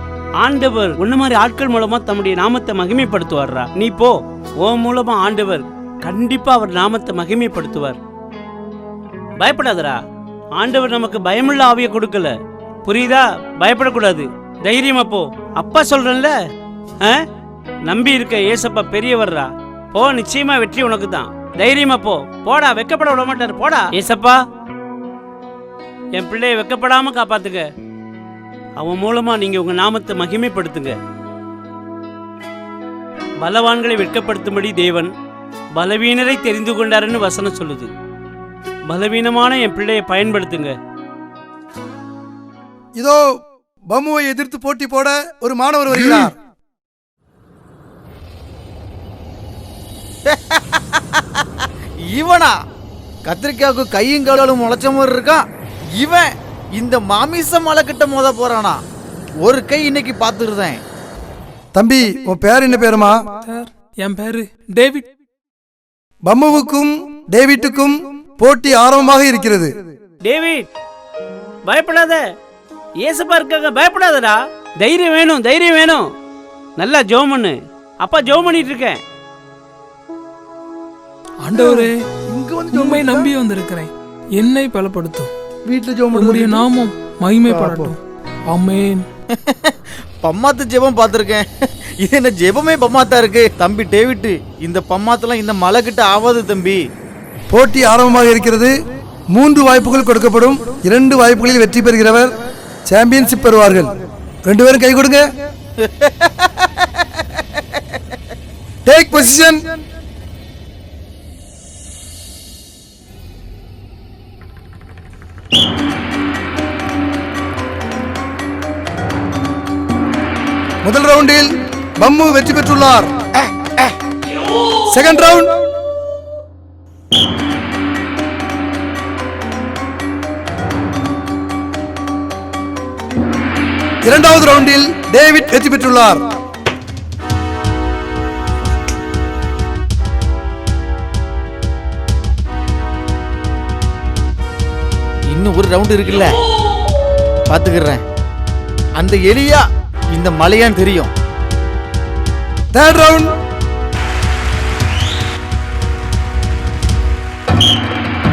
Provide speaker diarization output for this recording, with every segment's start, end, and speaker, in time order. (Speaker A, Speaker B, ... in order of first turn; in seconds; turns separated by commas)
Speaker A: 0.4-8.0, Speaker A: 9.4-10.0, Speaker A: 10.5-16.3, Speaker A: 17.9-24.4, Speaker A: 26.1-27.6, Speaker A: 28.8-31.0, Speaker A: 33.4-35.1, Speaker A: 35.7-37.9, Speaker A: 38.9-40.8, Speaker B: 43.9-46.3, Speaker C: 46.0-46.3, Speaker C: 50.2-51.4, Speaker C: 52.1-52.5, Speaker C: 53.2-55.4, Speaker C: 56.0-58.8, Speaker C: 59.4-60.8, Speaker B: 61.7-63.2, Speaker D: 63.5-65.0, Speaker B: 66.2-69.7, Speaker A: 70.2-70.7, Speaker A: 71.6-72.2, Speaker A: 73.0-76.0, Speaker A: 76.8-79.0, Speaker D: 81.4-81.9, Speaker B: 81.5-83.3, Speaker D: 82.7-85.3, Speaker B: 85.7-86.7, Speaker D: 86.1-88.0, Speaker B: 87.5-87.9, Speaker D: 88.5-89.0, Speaker C: 89.4-91.4, Speaker C: 92.0-96.8, Speaker B: 97.5-98.7, Speaker B: 99.3-102.3, Speaker B: 102.9-103.9, Speaker B: 104.5-105.2, Speaker C: 105.8-106.5, Speaker B: 108.8-109.6, Speaker B: 120.8-121.4, Speaker B: 122.0-123.1, Speaker B: 124.9-125.5, Speaker B: 134.0-136.2, Speaker C: 145.3-146.3, Speaker C: 147.5-148.0, Speaker C: 149.0-151.1, Speaker B: 152.7-153.2